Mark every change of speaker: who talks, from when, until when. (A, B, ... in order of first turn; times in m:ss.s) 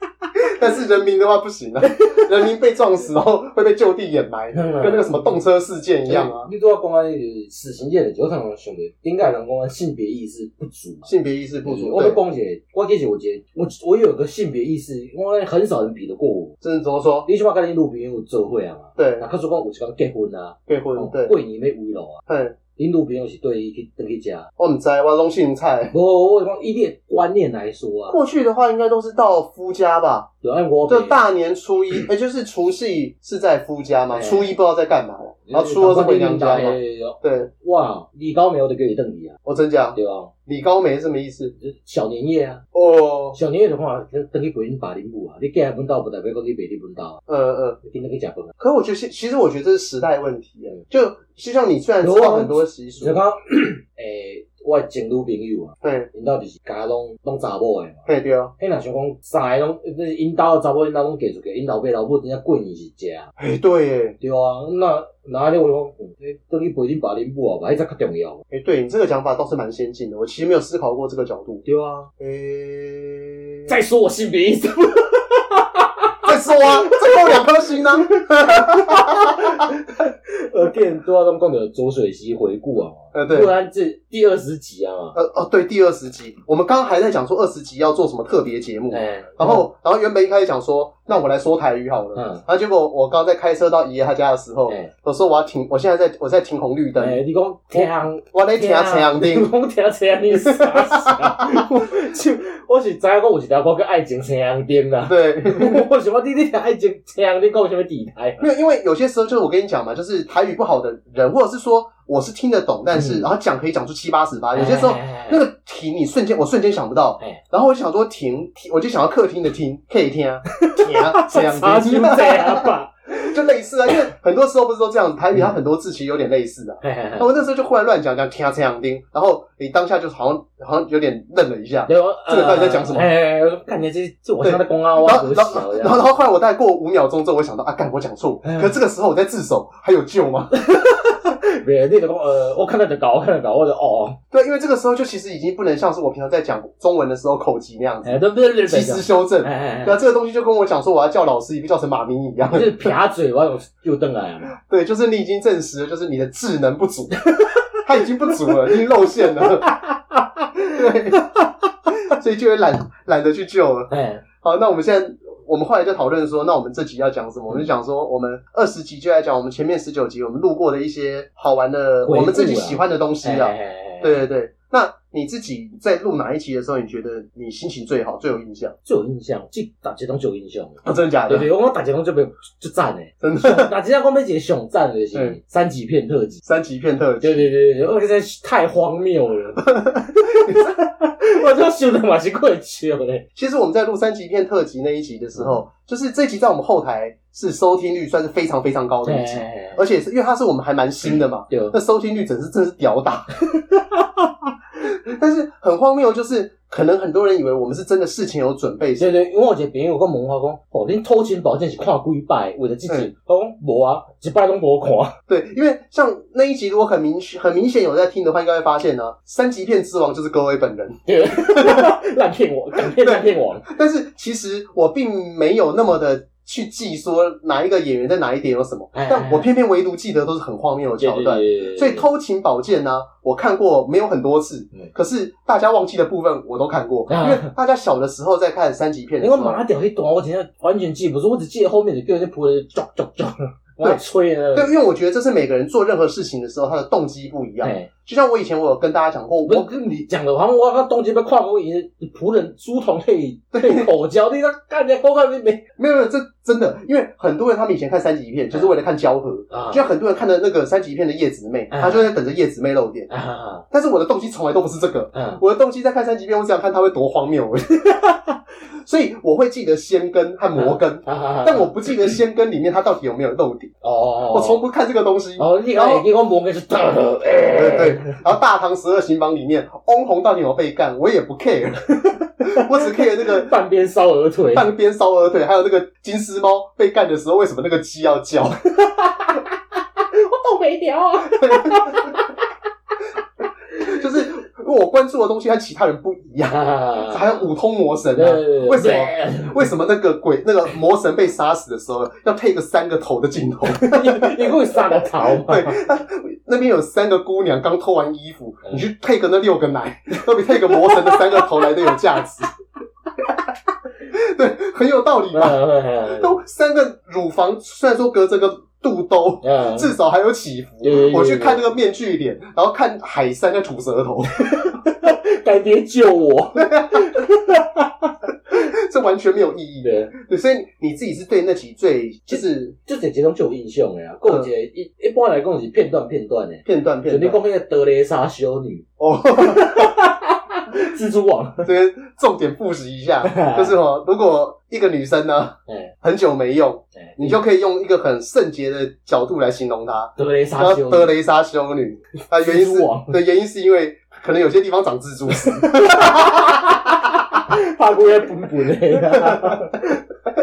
0:00.5-0:06.5 A
0:04.5-0:05.4 B
0:06.1-0:11.1 B
0:11.1-0:12.2 A
0:11.6-0:16.6 B
0:16.6-0:17.3 A
0:17.3-0:22.2 B
0:19.0-0:19.3 A
0:20.7-0:21.4 A
0:22.3-0:22.6 A
0:22.8-0:24.5 B
0:24.6-0:25.9 A
0:25.9-0:28.2 B
0:28.1-0:30.3 A
0:30.4-0:31.2 B
0:30.9-0:37.5 A
0:34.1-0:34.5 B
0:35.5-0:39.4 B
0:39.5-0:41.5 A
0:40.0-0:40.3 B
0:41.6-0:42.6 B
0:42.7-0:43.4 A
0:43.3-0:47.2 B
0:47.3-0:47.8 A
0:47.8-0:48.5 B
0:48.6-0:53.2 A
0:52.0-0:58.0 B
0:55.8-0:56.1 A
0:58.1-0:58.5 A
0:58.6-1:03.3 B
1:03.4-1:04.2 A
1:04.2-1:08.4 B
1:08.5-1:11.6 A
1:11.6-1:12.1 B
1:12.2-1:13.7 A
1:13.7-1:25.2 B
1:16.2-1:19.7 A
1:23.1-1:23.5 A
1:25.2-1:37.2 A
1:28.9-1:29.7 B
1:32.2-1:32.4 B
1:37.0-1:48.5 B
1:37.7-1:39.5 A
1:40.3-1:42.0 A
1:45.0-1:45.8 A
1:48.4-2:02.7 A
1:53.0-1:53.3 B
1:54.6-1:55.4 B
2:00.6-2:03.4 B
2:03.3-2:13.1 A
2:06.8-2:07.3 B
2:11.9-2:16.1 B
2:14.4-2:20.6 A
2:18.4-2:18.7 B
2:20.5-2:24.2 B
2:24.3-2:32.9 A
2:28.0-2:30.0 B
2:32.5-2:34.6 B
2:34.6-2:37.2 A
2:37.3-2:37.6 B
2:37.8-2:39.8 A
2:39.4-2:41.7 B
2:40.7-2:41.3 A
2:42.0-2:43.9 A
2:43.9-2:44.2 B
2:44.4-2:58.8 A
2:52.0-2:54.2 B
2:58.8-3:06.4 B
3:00.8-3:01.5 A
3:03.2-3:03.7 A
3:06.4-3:07.5 A
3:07.2-3:13.2 B
3:09.7-3:10.8 A
3:13.4-3:23.3 A
3:15.4-3:15.6 B
3:19.0-3:19.8 B
3:21.5-3:21.8 B
3:23.7-3:24.3 B
3:24.8-3:29.3 A
3:29.0-3:35.2 B
3:35.3-3:41.9 A
3:41.1-3:43.7 B
3:42.8-3:59.6 A
3:48.9-3:49.5 B
3:51.0-3:52.1 B
3:57.1-3:57.5 B
3:59.2-4:04.7 B
4:04.5-4:09.7 A
4:07.6-4:07.9 B
4:09.5-4:15.6 B
4:13.5-4:13.9 A
4:15.8-4:23.1 A
4:19.5-4:19.8 B
4:21.7-4:22.1 B
4:23.1-4:23.6 B
4:23.7-4:28.2 A
4:25.1-4:25.4 B
4:28.8-4:33.7 A
4:30.6-4:32.2 B
4:33.8-4:34.6 B
4:34.3-4:36.0 A
4:35.4-4:38.2 B
4:37.6-4:43.5 A
4:42.4-4:44.7 B
4:44.5-4:48.6 A
4:48.9-4:52.4 B
4:51.3-4:52.1 A
4:53.8-5:12.5 A
4:56.5-4:57.4 B
4:58.2-4:59.6 B
5:03.7-5:05.8 B
5:10.5-5:12.0 B
5:14.1-5:15.6 A
5:15.3-5:16.4 B
5:16.1-5:24.6 A
5:19.4-5:19.9 B
5:20.8-5:21.6 B
5:24.4-5:28.2 B
5:26.6-5:27.2 A
5:28.5-5:32.8 A
5:29.8-5:30.1 B
5:32.3-5:41.7 B
5:36.7-5:37.4 A
5:39.0-5:39.9 A
5:41.6-5:57.0 A
5:43.2-5:43.8 B
5:45.7-5:45.9 B
5:47.0-5:47.4 B
5:50.2-5:51.1 B
5:52.4-5:53.2 B
5:55.4-6:00.0 B
5:59.0-5:59.8 A